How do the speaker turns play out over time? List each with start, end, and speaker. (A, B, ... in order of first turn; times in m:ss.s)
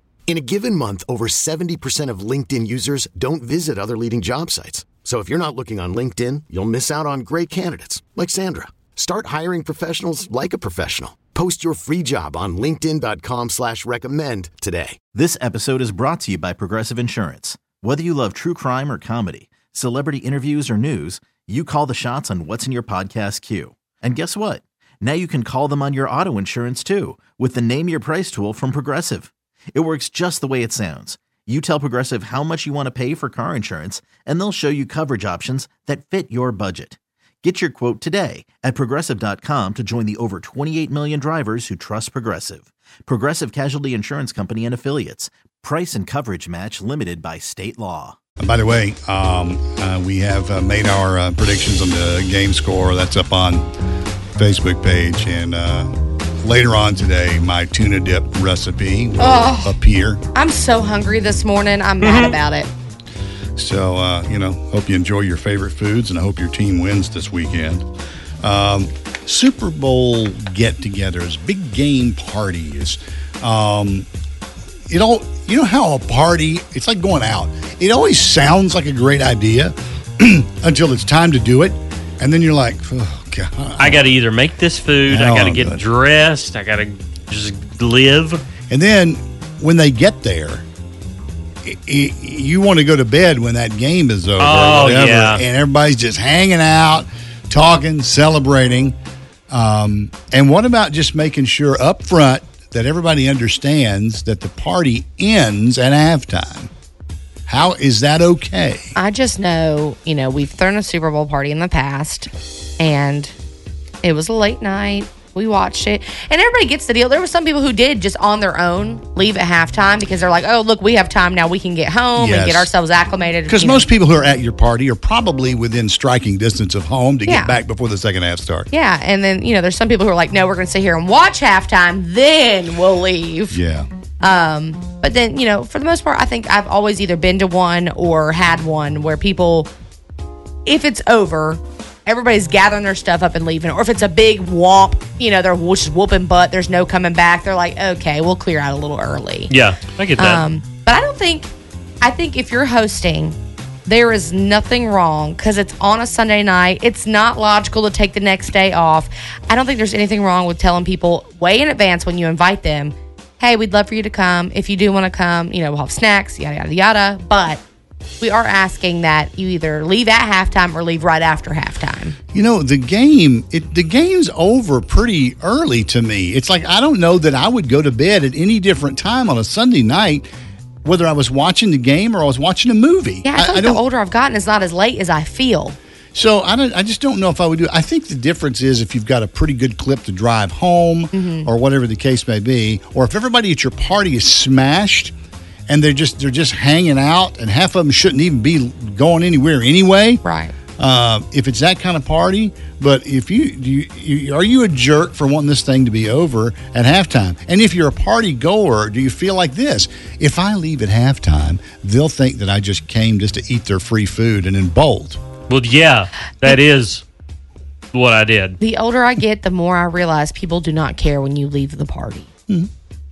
0:00.3-0:15.0 A
0:15.1-0:48.2 B
0:48.4-0:53.7 C
0:54.4-1:00.2 C
0:59.2-0:59.7 D
1:00.3-1:02.7 D
1:02.0-1:02.3 E
1:03.6-1:07.9 C
1:08.4-1:14.1 C
1:14.9-1:24.0 C
1:23.8-1:28.4 E
1:25.1-1:25.8 C
1:28.7-1:30.6 C
1:31.6-1:39.0 C
1:34.4-1:35.4 E
1:39.5-1:46.7 C
1:47.5-1:48.9 C
1:48.9-1:53.3 D
1:54.0-2:03.8 D
2:02.2-2:02.7 C
2:03.5-2:08.7 C
2:07.2-2:07.5 D
2:08.7-2:13.6 D
2:13.5-2:13.9 C
2:14.2-2:19.7 D
2:20.6-2:29.5 D
2:29.5-2:30.4 E
2:30.2-2:47.6 D
2:48.2-2:52.2 D
2:52.3-3:00.3 C
3:00.8-3:03.8 C
3:03.2-3:05.8 D
3:06.1-3:15.1 C
3:11.1-3:11.5 D
3:15.7-3:20.2 C
3:20.2-3:20.5 D
3:20.8-3:35.2 C
3:35.5-3:37.0 E
3:37.9-3:38.6 E
3:38.6-3:42.3 D